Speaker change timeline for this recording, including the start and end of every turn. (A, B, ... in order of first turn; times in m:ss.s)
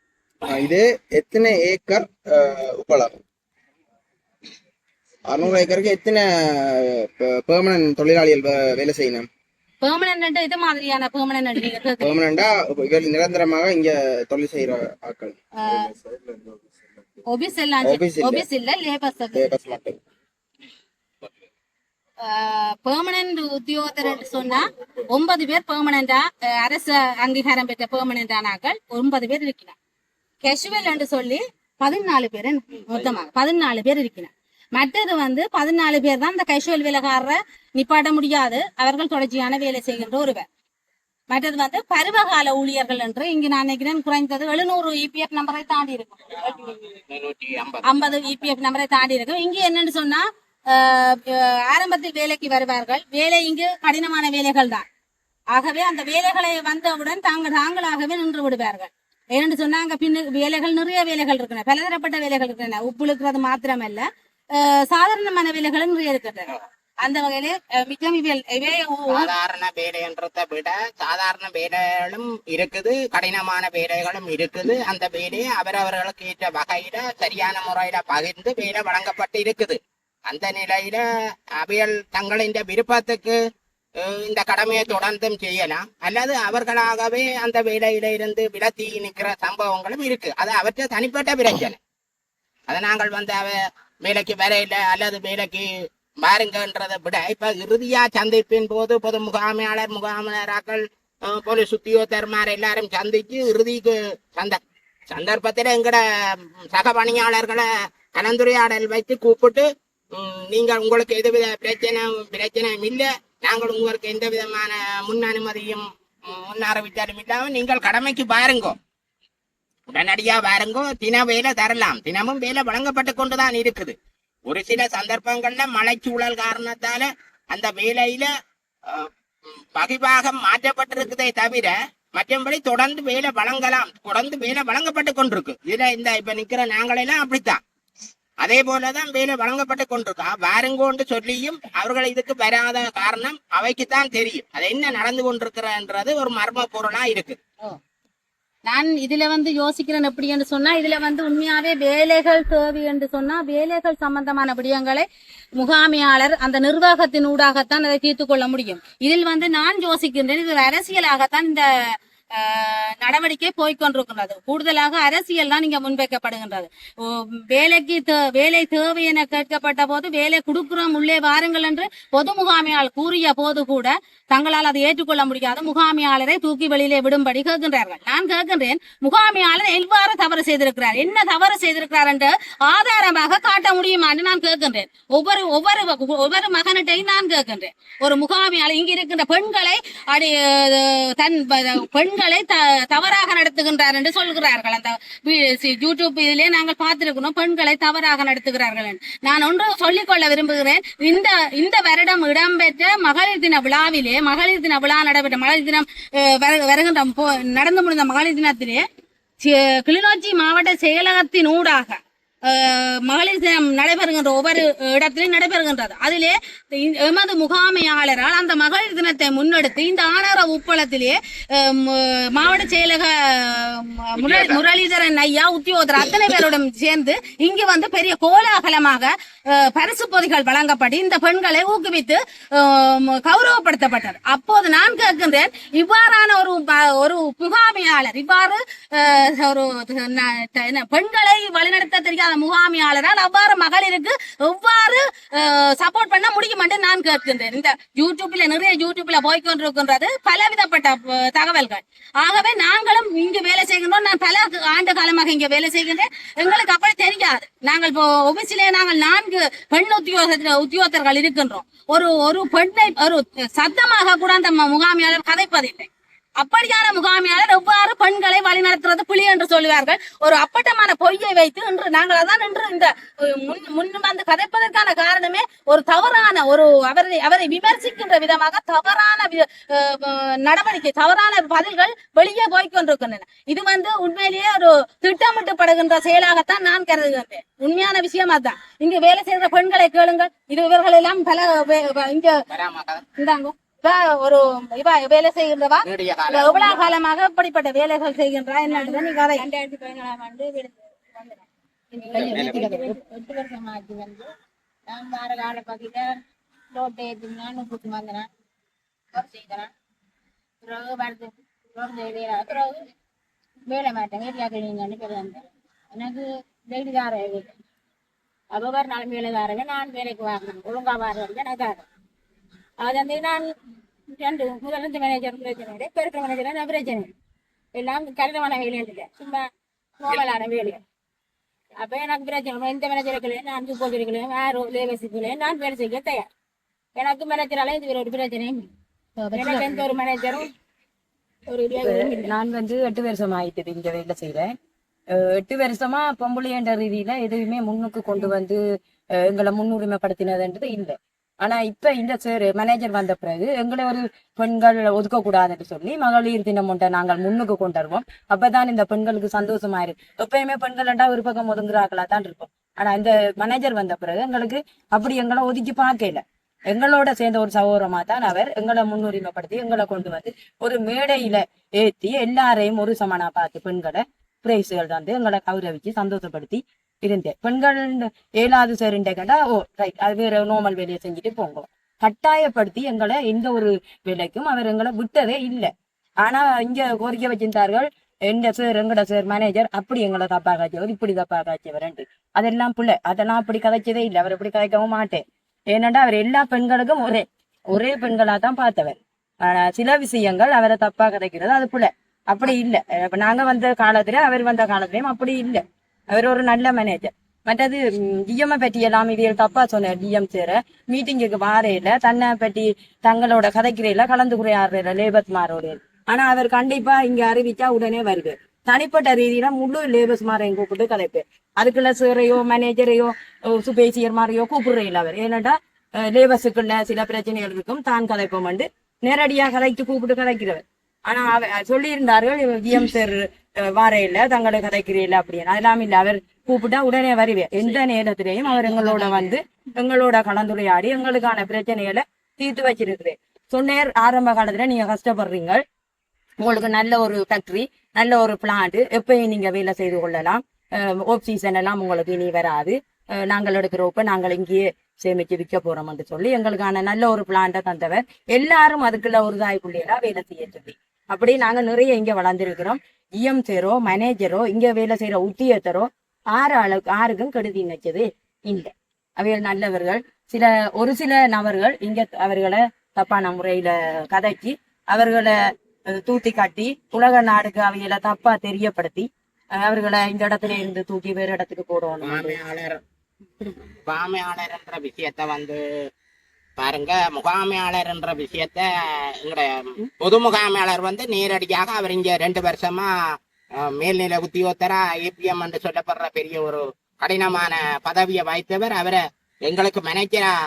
0:00.4-0:03.2 A
0:05.2-0:09.3 A
0:09.8-0:12.1 B
0:12.0-0:17.0 A
0:17.3-0:19.4 B
0:17.8-0:18.5 A
0:19.3-0:20.0 A
0:22.2-0:29.7 B
0:30.4-0:40.4 B
0:41.3-0:46.8 B
0:47.1-0:48.1 C
0:47.8-0:54.8 B
0:55.5-1:09.2 B
1:09.1-1:21.0 C
1:21.6-1:23.4 C
1:24.0-1:31.8 C
1:32.7-1:35.6 C
1:36.2-1:46.0 C
1:46.7-1:49.6 C
1:50.2-1:58.8 C
1:59.9-2:03.9 C
2:04.5-2:08.3 C
2:09.7-2:17.6 C
2:18.4-2:27.4 C
2:28.6-2:41.7 B
2:42.3-3:28.8 B
3:29.4-4:52.4 B
3:44.2-3:44.6 C
4:52.5-4:53.0 C
4:53.2-4:59.4 B
4:55.8-4:56.8 C
4:58.7-5:04.3 D
5:02.1-5:02.8 E
5:02.3-5:02.6 C
5:04.9-5:06.2 D
5:06.7-5:08.3 D
5:09.1-5:09.7 D
5:10.6-5:12.8 D
5:13.7-5:17.5 D
5:18.5-5:21.8 D
5:22.8-5:23.5 D
5:24.1-5:27.1 D
5:27.7-5:29.4 D
5:30.0-5:30.8 D
5:31.8-5:36.3 D
5:37.0-5:38.7 D
5:39.3-5:40.5 D
5:41.5-5:42.2 D
5:41.8-5:44.5 E
5:45.2-5:48.6 E
5:49.2-6:25.7 E
6:26.2-6:35.2 E
6:35.7-7:25.6 E
7:26.4-7:55.4 E
7:55.9-7:59.1 E
7:59.6-8:02.4 E
8:02.0-8:02.8 C
8:03.8-8:05.6 C
8:06.6-8:08.7 C
8:09.2-8:12.9 C
8:13.6-8:20.3 C